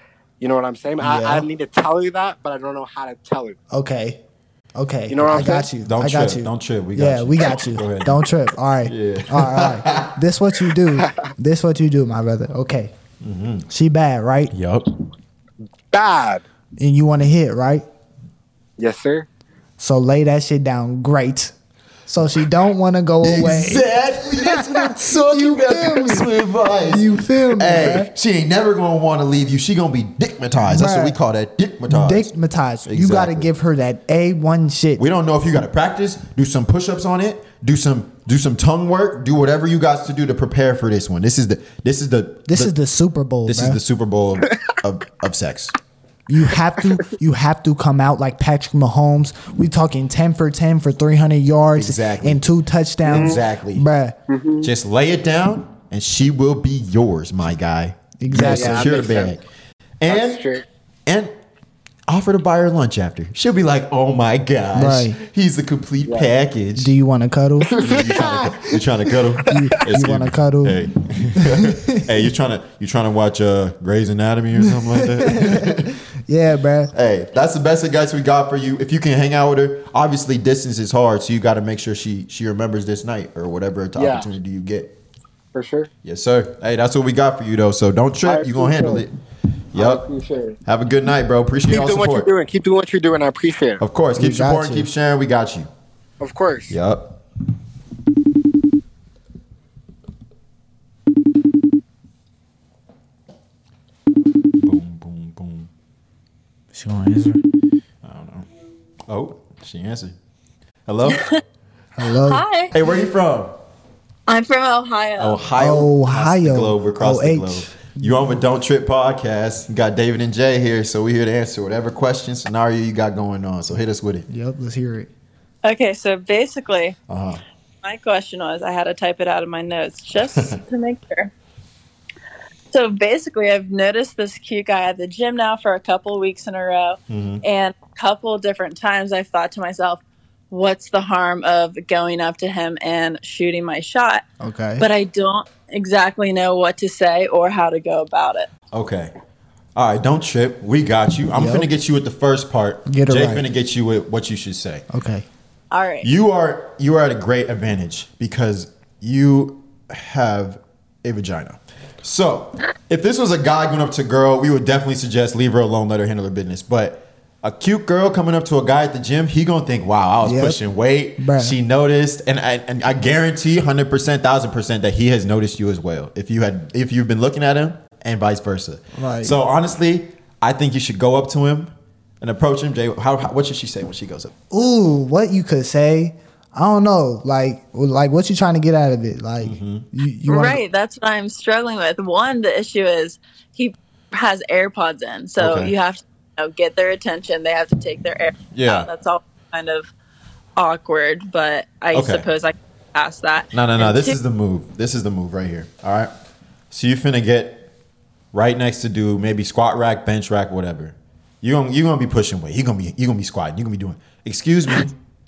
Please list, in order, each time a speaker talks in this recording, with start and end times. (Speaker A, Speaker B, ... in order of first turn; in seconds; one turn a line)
Speaker A: 0.4-3.6
Speaker B: 1.0-1.5
Speaker B: 3.7-4.2
Speaker B: 4.8-12.9
Speaker A: 5.1-5.7
Speaker C: 5.3-8.3
Speaker C: 8.8-10.2
Speaker A: 10.8-11.2
Speaker C: 13.2-13.7
Speaker B: 13.7-14.5
Speaker C: 14.5-14.8
Speaker A: 15.9-16.4
Speaker B: 16.8-17.8
Speaker A: 18.8-19.3
Speaker B: 19.8-21.5
Speaker B: 22.1-28.1
Speaker C: 23.2-32.3
Speaker B: 30.6-31.2
Speaker B: 31.9-35.0
Speaker C: 32.8-33.5
Speaker C: 35.0-42.7
Speaker B: 42.5-43.8
Speaker C: 43.5-45.7
Speaker B: 46.3-54.2
Speaker C: 51.7-52.5
Speaker C: 53.0-53.9
Speaker A: 53.0-53.4
Speaker A: 54.3-54.7
Speaker C: 54.6-59.4
Speaker B: 58.2-59.0
Speaker A: 58.3-59.4
Speaker C: 60.0-60.4
Speaker A: 60.1-60.6
Speaker C: 61.0-61.3
Speaker C: 62.1-66.9
Speaker B: 64.7-65.2
Speaker B: 66.8-68.8
Speaker A: 67.7-68.3
Speaker C: 67.8-75.9
Speaker B: 69.4-70.8
Speaker B: 71.3-72.1
Speaker B: 74.6-76.9
Speaker C: 76.9-84.9
Speaker A: 84.0-84.3
Speaker A: 85.5-85.9
Speaker C: 86.0-89.2
Speaker A: 88.2-89.0
Speaker C: 89.7-90.0
Speaker A: 89.7-90.6
Speaker C: 90.7-92.3
Speaker A: 91.7-93.8
Speaker C: 93.8-95.7
Speaker B: 94.2-94.9
Speaker A: 96.2-96.8
Speaker C: 96.7-97.2
Speaker C: 104.6-105.7
Speaker B: 106.7-107.4
Speaker C: 108.0-108.5
Speaker C: 109.1-110.1
Speaker C: 110.8-111.3
Speaker D: 111.1-111.4
Speaker B: 112.0-112.4
Speaker D: 112.1-112.7
Speaker C: 112.7-113.5
Speaker D: 114.3-115.4
Speaker C: 115.2-124.3
Speaker B: 115.6-118.3
Speaker B: 124.3-125.1
Speaker D: 125.6-127.0
Speaker C: 127.1-127.4
Speaker D: 127.8-131.3
Speaker C: 130.2-130.6
Speaker D: 132.7-144.2
Speaker C: 137.1-137.4
Speaker B: 144.4-144.8
Speaker D: 144.8-148.5
Speaker C: 148.7-149.1
Speaker C: 149.7-154.8
Speaker B: 151.3-151.7
Speaker B: 152.8-153.4
Speaker B: 154.9-155.2
Speaker D: 155.7-156.1
Speaker C: 156.0-184.3
Speaker B: 170.2-170.6
Speaker B: 171.2-171.6
Speaker B: 178.9-179.4
Speaker B: 184.5-190.6
Speaker C: 189.4-189.9
Speaker D: 190.3-199.9
Speaker C: 195.4-195.7
Speaker C: 198.5-198.9
Speaker D: 200.6-204.2
Speaker C: 201.9-202.3
Speaker C: 203.5-206.1
Speaker C: 206.7-207.7
Speaker C: 208.3-214.9